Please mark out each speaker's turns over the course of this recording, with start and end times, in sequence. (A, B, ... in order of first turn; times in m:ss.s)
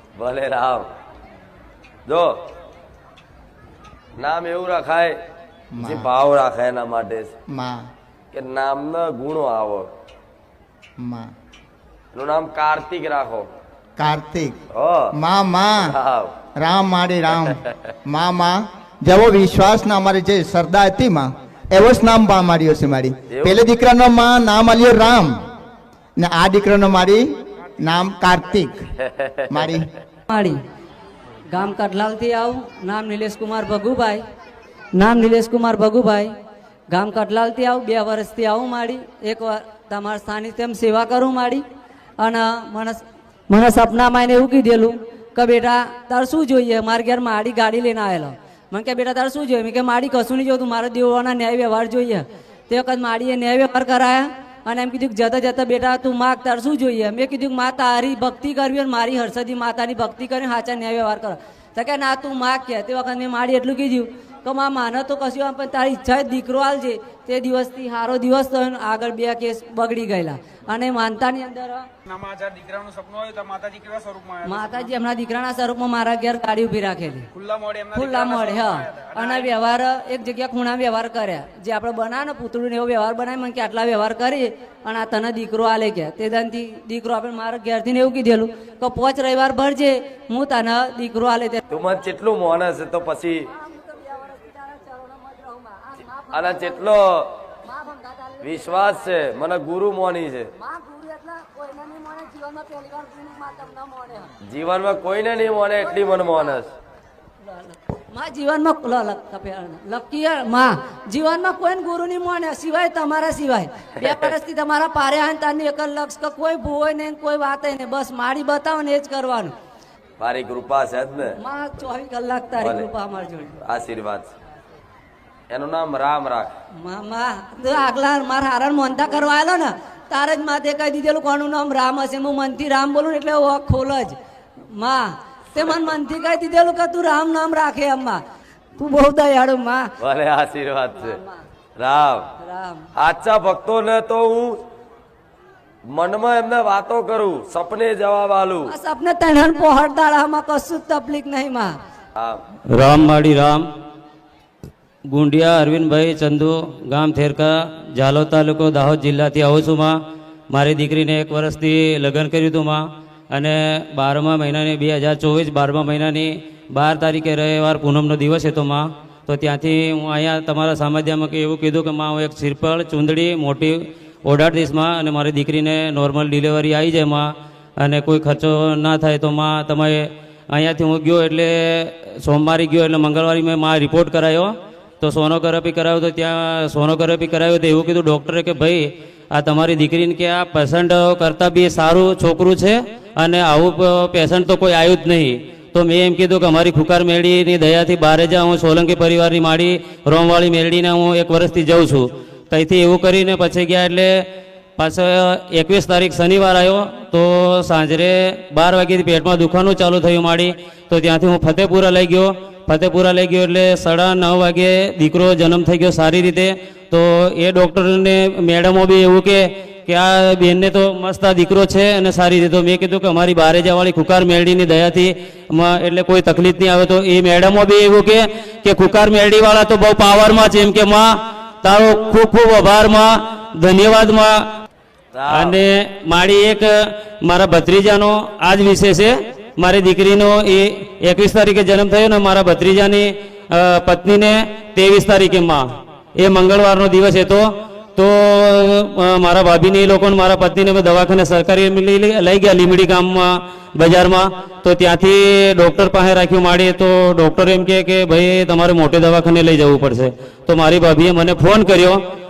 0:00.2-0:00.9 A
0:04.2-0:05.1 A
0:05.7-0:06.1 B
0:05.8-0:07.3 A
0:07.5-0:07.9 B
0:08.3-0:09.8 A
0:11.0-0:11.3 B
0:12.1-0:13.5 A
0:14.0-0:14.6 B
0:14.7-0:15.1 A
0:15.1-0:15.9 B
0:15.8-0:16.3 A
0:16.6-0:25.3 B
0:23.3-0:23.6 A
0:26.2-0:27.2 B
0:27.8-0:28.8 B
0:29.1-0:29.8 A
0:29.5-0:29.8 B
0:30.3-0:30.6 C
0:31.5-0:34.2 C
0:34.9-0:36.3 C
0:36.9-0:41.6 C
0:42.2-1:11.9 C
1:12.1-1:14.5 D
1:14.4-1:17.3 C
1:17.4-1:19.4 D
1:17.9-1:31.6 C
1:31.7-1:33.4 A
1:33.5-1:36.8 C
1:36.3-1:37.0 A
1:37.7-1:39.0 C
1:38.4-1:40.4 A
1:40.6-1:44.3 C
1:44.5-1:46.7 A
1:48.1-1:59.5 C
2:00.2-2:01.3 A
2:01.4-2:03.6 C
2:02.6-2:02.9 A
2:03.6-2:04.3 A
2:05.5-2:06.5 A
2:06.8-2:14.2 C
2:14.7-2:18.2 C
2:18.8-2:19.9 C
2:20.0-2:21.2 A
2:21.0-2:21.4 C
2:21.8-2:22.2 A
2:22.4-2:22.8 C
2:23.0-2:24.6 A
2:25.9-2:28.7 A
2:28.7-2:31.8 C
2:32.2-2:32.4 A
2:32.7-2:33.6 E
2:35.1-2:39.9 E
2:40.5-2:42.8 E
2:43.3-2:57.3 E
2:57.8-3:24.1 E
3:24.8-3:51.1 E
3:51.6-3:54.3 E
3:55.1-3:55.6 A
3:55.3-3:56.7 E
3:57.2-4:05.6 E
4:06.2-4:07.4 E
4:08.0-4:22.0 E